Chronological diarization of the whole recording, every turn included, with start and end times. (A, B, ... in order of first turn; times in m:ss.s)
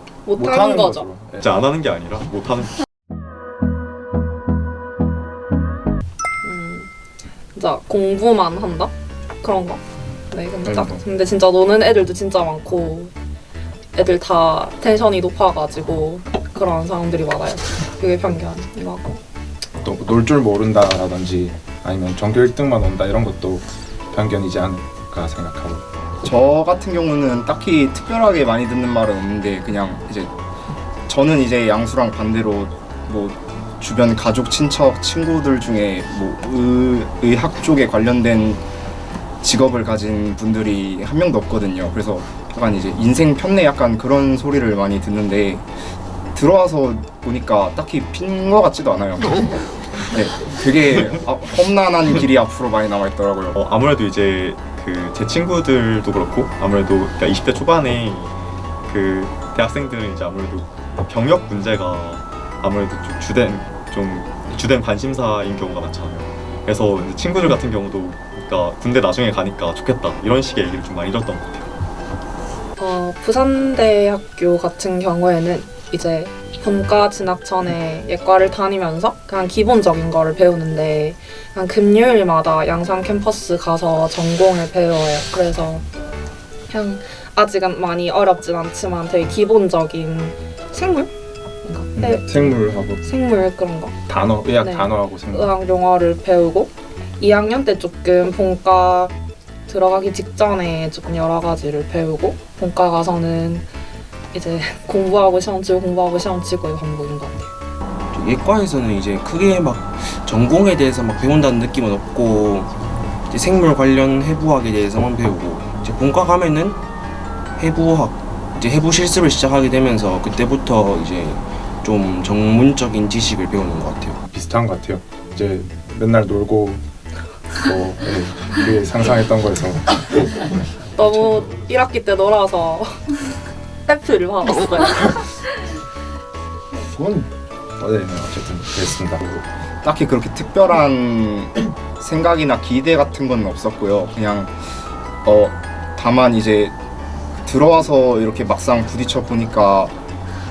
0:00.3-0:01.1 A
0:00.4-0:01.6 B
0:01.4-0:02.8 C
0:06.4-0:06.9 A
0:07.5-0:13.1 A
0:10.6-0:11.0 B
0:14.0-0:19.2 A
0:19.8-0:25.8 B
0:26.2-0:30.3 D
0:31.1-0:38.6 D
0:39.4-0:45.7 D
0:46.4-0:49.5 D
0:50.1-0:53.6 D
0:53.5-1:11.7 C
1:12.8-1:25.9 A
1:26.7-1:31.1 A
1:31.6-1:32.4 A
1:32.0-1:33.0 B
1:33.0-1:34.0 A
1:34.1-1:35.5 B
1:34.6-1:39.1 A
1:39.7-1:43.7 A
1:44.3-1:47.5 A
1:48.1-1:52.7 E
1:53.3-1:56.8 E
1:57.6-2:04.2 E
2:04.3-2:06.8 B
2:07.6-2:09.9 B
2:11.0-2:13.0 A
2:13.9-2:15.3 A
2:16.8-2:19.4 B
2:19.8-2:24.6 D
2:25.2-2:26.7 D
2:27.4-2:29.9 D